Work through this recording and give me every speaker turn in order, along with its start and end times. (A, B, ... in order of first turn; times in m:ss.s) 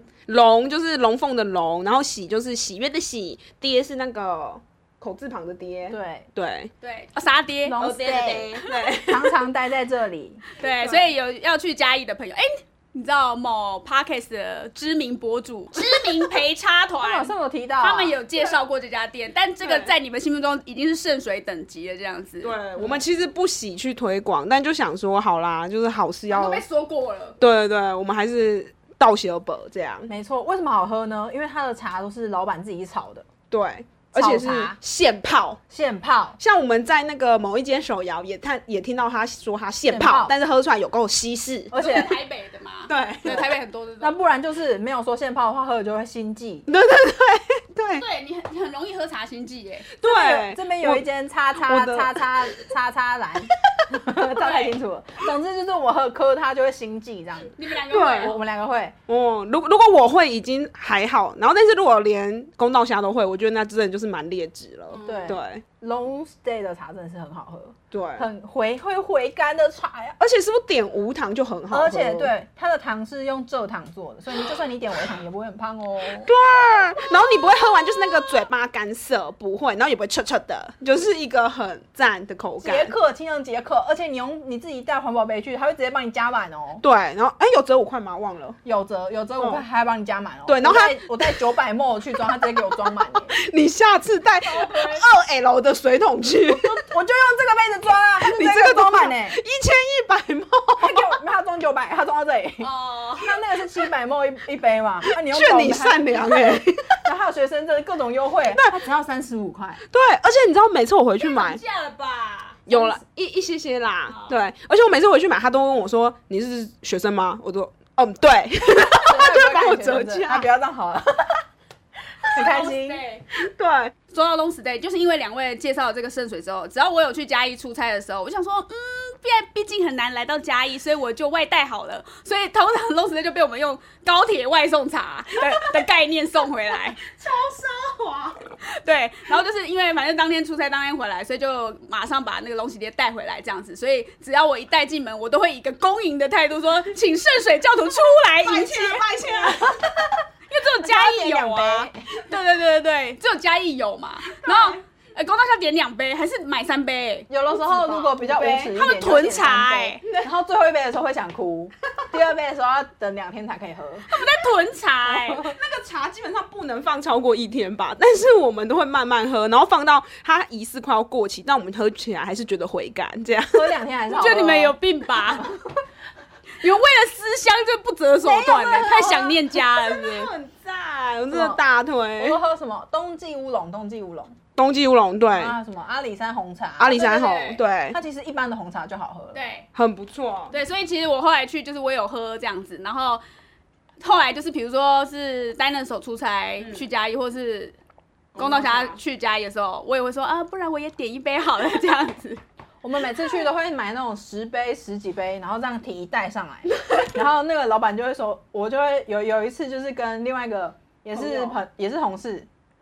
0:00.3-0:06.7 A
0:05.9-0:06.3 B
0:06.8-0:07.8 C
0:07.6-0:10.4 B
0:07.8-0:09.4 A
0:10.6-0:22.5 C
0:10.8-0:11.1 A
0:17.0-0:18.2 B
0:19.6-0:19.9 A
0:22.4-0:26.6 A
0:26.3-0:27.4 C
0:27.4-0:30.1 A
0:30.1-0:33.2 B
0:33.5-0:35.6 A
0:34.1-0:34.8 B
0:35.7-0:36.4 B
0:36.4-0:41.7 A
0:39.9-0:40.3 B
0:41.7-0:42.2 B
0:41.7-0:44.2 C
0:42.9-0:43.5 A
0:43.2-0:46.7 B
0:46.7-0:48.0 A
0:48.0-0:49.9 C
0:49.9-0:51.0 A
0:50.0-0:58.9 B
0:51.6-0:52.5 A
0:54.4-0:54.7 C
0:57.5-0:58.4 C
0:57.9-0:58.4 A
0:59.1-1:05.6 A
1:04.9-1:05.3 C
1:05.0-1:10.2 B
1:07.9-1:08.3 A
1:10.2-1:12.3 A
1:11.7-1:16.3 B
1:16.2-1:22.9 A
1:22.6-1:26.8 B
1:26.8-1:28.6 A
1:28.6-1:33.3 B
1:30.4-1:31.3 A
1:33.2-1:36.8 A
1:34.4-1:35.0 C
1:36.5-1:39.4 B
1:38.2-1:41.1 A
1:40.8-1:49.8 B
1:42.6-1:43.4 C
1:45.0-1:47.0 A
1:48.4-1:48.7 A
1:49.9-1:51.6 A
1:51.2-1:52.9 C
1:52.7-2:00.5 A
1:54.1-1:54.4 C
1:59.0-2:01.4 B
2:02.2-2:03.0 B
2:02.3-2:03.2 C
2:03.4-2:03.9 A
2:04.1-2:17.0 C
2:15.4-2:15.8 A
2:17.0-2:18.5 A
2:18.7-2:29.1 C
2:28.4-2:29.8 A
2:29.5-2:29.9 B
2:30.5-2:38.2 C
2:30.7-2:32.0 B
2:34.4-2:34.8 A
2:37.3-2:44.0 B
2:38.1-2:38.8 A
2:38.7-2:40.0 C
2:44.1-2:45.5 C
2:45.3-2:53.7 A
2:53.5-2:55.7 B
2:54.1-2:55.5 C
2:56.6-3:00.3 C
2:58.2-3:02.4 A
3:01.3-3:01.6 B
3:02.2-3:04.4 B
3:04.6-3:05.6 A
3:05.3-3:07.0 B
3:06.8-3:08.0 A
3:06.9-3:07.6 C
3:07.9-3:09.4 B
3:09.3-3:09.7 C
3:09.7-3:10.6 A
3:10.5-3:13.2 C
3:14.0-3:17.8 C
3:16.6-3:16.9 A
3:18.3-3:19.0 A
3:18.4-3:22.4 C
3:22.8-3:32.5 B
3:31.1-3:31.6 A